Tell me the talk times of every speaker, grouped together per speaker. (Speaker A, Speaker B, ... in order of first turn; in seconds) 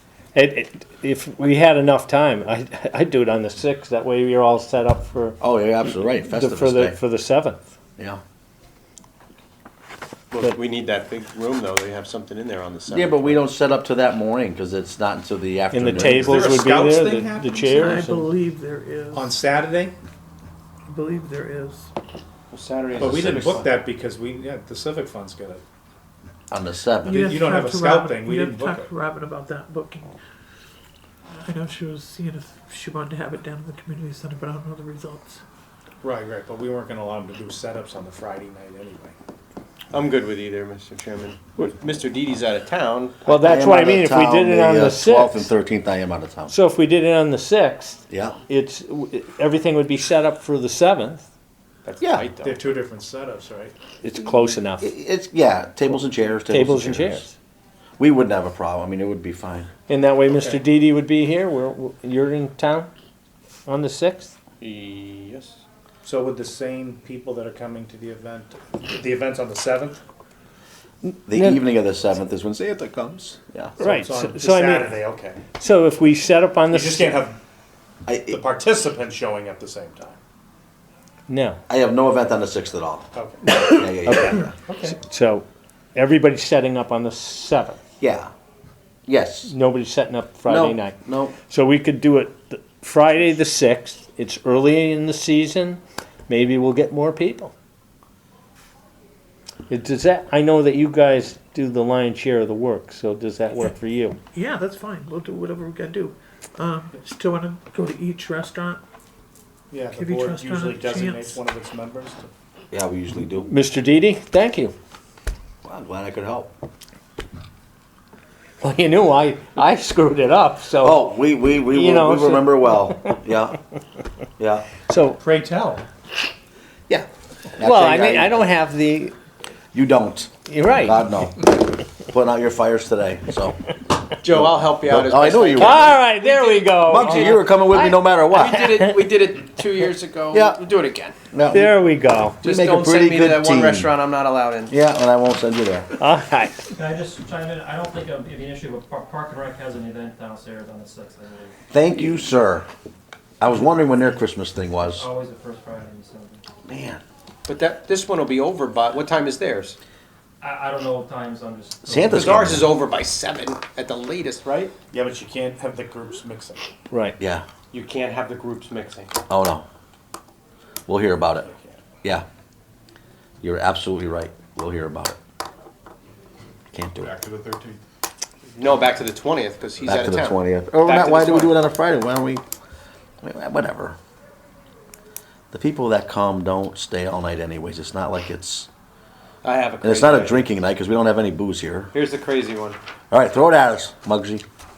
Speaker A: 0.3-7.6, 15.7-18.3, 43.2-45.5, 46.5-51.2, 54.0-54.9, 56.5-57.4, 59.9-62.9, 63.6-64.3, 71.3-71.6, 73.8-74.9, 75.5-77.2, 81.3-81.6, 84.9-87.8, 89.5-97.5, 99.7-104.2, 113.5-114.7, 118.6-121.0, 121.7-123.1, 124.9-125.2, 127.6-129.1, 130.4-131.1, 135.6-137.4, 141.5-142.4, 146.0-146.7, 161.9-162.5, 166.9-167.2
Speaker B: 5.4-7.0, 12.9-16.4, 23.0-23.6, 26.5-27.3, 43.2-46.5, 48.1-48.4, 52.0-52.3, 54.8-57.2, 58.0-59.7, 71.2-73.7, 78.0-78.4, 81.7-83.0, 83.6-84.5, 88.0-88.3, 89.0-89.5, 90.5-91.3, 112.7-113.5, 115.6-116.5, 120.8-123.6, 124.4-124.7, 127.6-128.4, 129.7-133.6, 134.3-135.9, 136.8-138.7, 140.3-140.6, 141.3-141.8, 142.4-143.9, 144.7-145.9, 151.7-152.7, 153.4-155.1, 156.7-157.0, 161.9-162.7, 167.2-167.4, 169.3-169.6, 170.9-171.5, 173.4-175.2, 176.7-177.1, 179.8-182.4, 183.2-184.0, 185.5-188.7, 189.8-191.9, 193.1-194.4
Speaker C: 10.3-13.4, 22.5-23.7, 39.9-43.2, 51.8-52.6, 64.6-65.6, 134.2-141.2, 142.4-144.7, 157.4-159.8, 162.1-164.7, 167.7-169.1, 178.6-181.6, 189.4-190.4, 191.9-192.8
Speaker D: 15.9-17.9, 19.1-19.9, 23.0-25.6, 27.1-28.9, 36.0-39.1, 52.4-53.8, 60.3-60.6, 66.0-70.0, 73.8-75.4, 76.7-77.4, 78.3-80.2, 83.1-85.0, 109.7-112.3, 125.2-125.8, 164.9-166.7, 171.5-171.8, 177.0-177.8
Speaker E: 17.7-19.4, 20.9-21.9, 27.1-30.1, 31.3-35.4, 104.3-108.8, 109.9-111.4, 155.9-156.4, 161.9-162.1
Speaker F: 146.8-151.3, 155.1-156.1